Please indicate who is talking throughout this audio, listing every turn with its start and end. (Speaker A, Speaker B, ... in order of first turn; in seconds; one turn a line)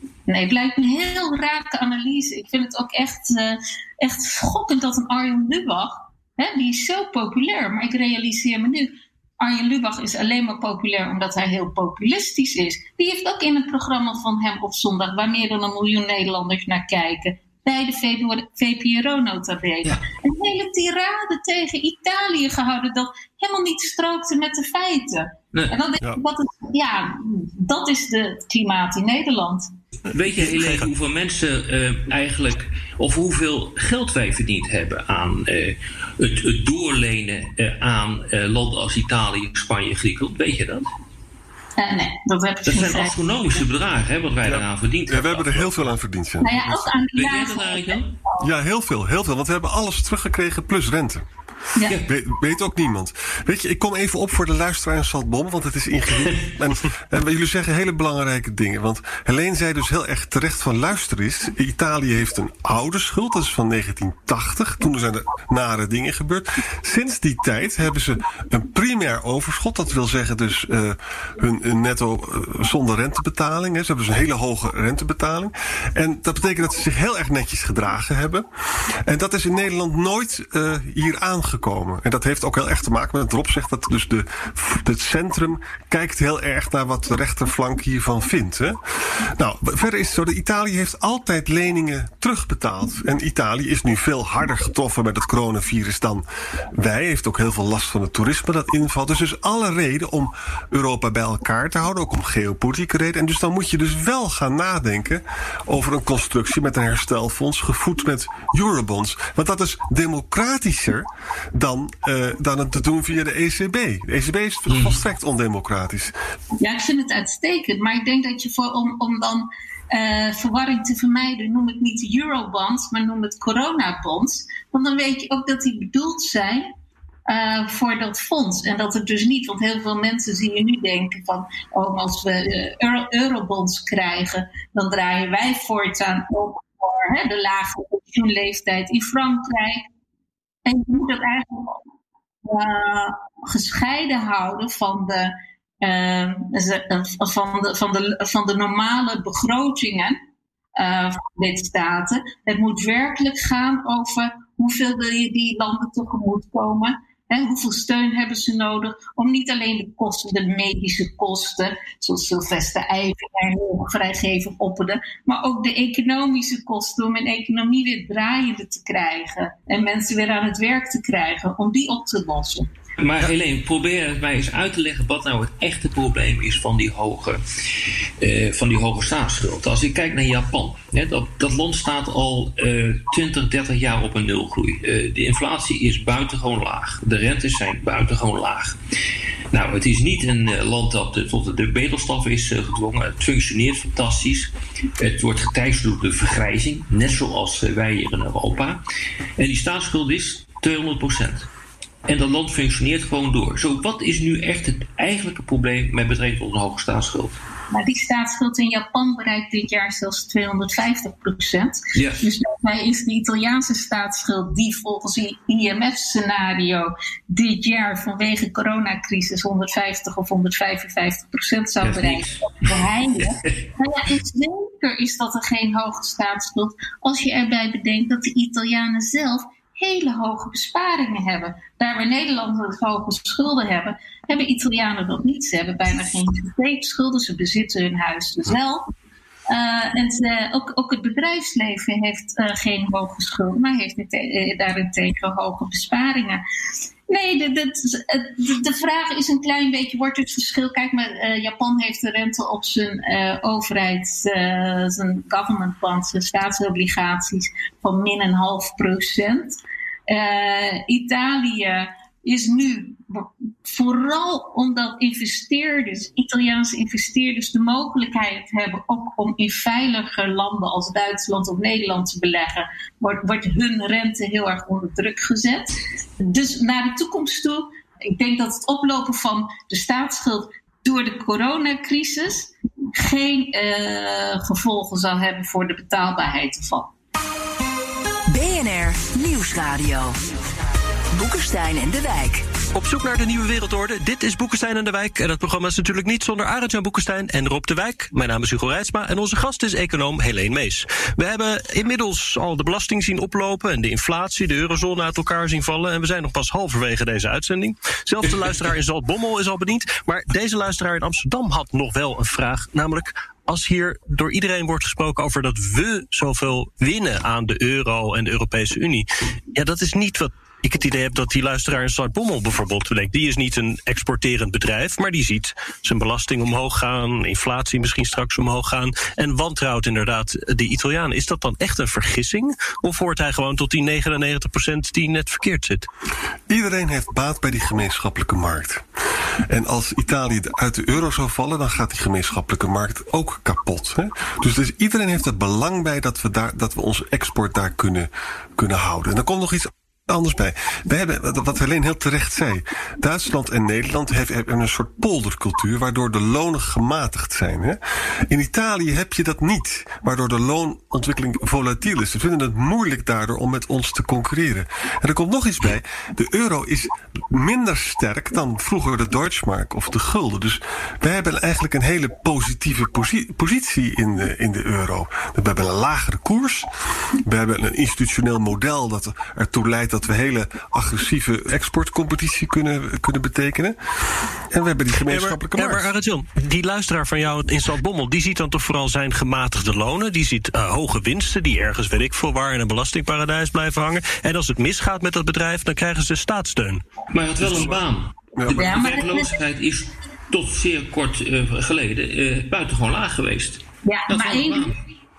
Speaker A: 0.3-29.7
Speaker B: 30.1-40.9
Speaker C: 30.4-30.8
Speaker A: 41.8-43.1
Speaker B: 42.6-45.9
Speaker D: 44.4-46.9
Speaker A: 46.4-48.5
Speaker B: 47.1-48.1
Speaker D: 48.4-51.2
Speaker D: 52.0-78.5
Speaker D: 79.0-88.8
Speaker D: 89.4-116.1
Speaker B: 114.7-115.0
Speaker A: 116.6-126.7
Speaker A: 127.3-139.8
Speaker A: 140.7-141.8
Speaker A: 142.4-150.2
Speaker A: 150.8-172.7
Speaker B: 173.0-177.4
Speaker B: 178.2-188.8
Speaker B: 189.5-198.8
Speaker B: 199.4-201.5
Speaker B: 202.1-207.4
Speaker A: 207.7-238.8
Speaker B: 211.9-212.2
Speaker B: 221.8-223.5
Speaker A: 239.5-246.4
Speaker A: 247.1-286.9
Speaker E: 288.3-290.2
Speaker E: 291.1-292.4
Speaker C: 292.7-335.9
Speaker D: 336.5-338.8
Speaker D: 339.5-376.7
Speaker D: 377.2-385.9
Speaker C: 385.0-396.8
Speaker B: 397.1-404.8
Speaker D: 397.4-397.8
Speaker D: 398.4-398.7
Speaker A: 398.5-399.4
Speaker A: 403.8-404.7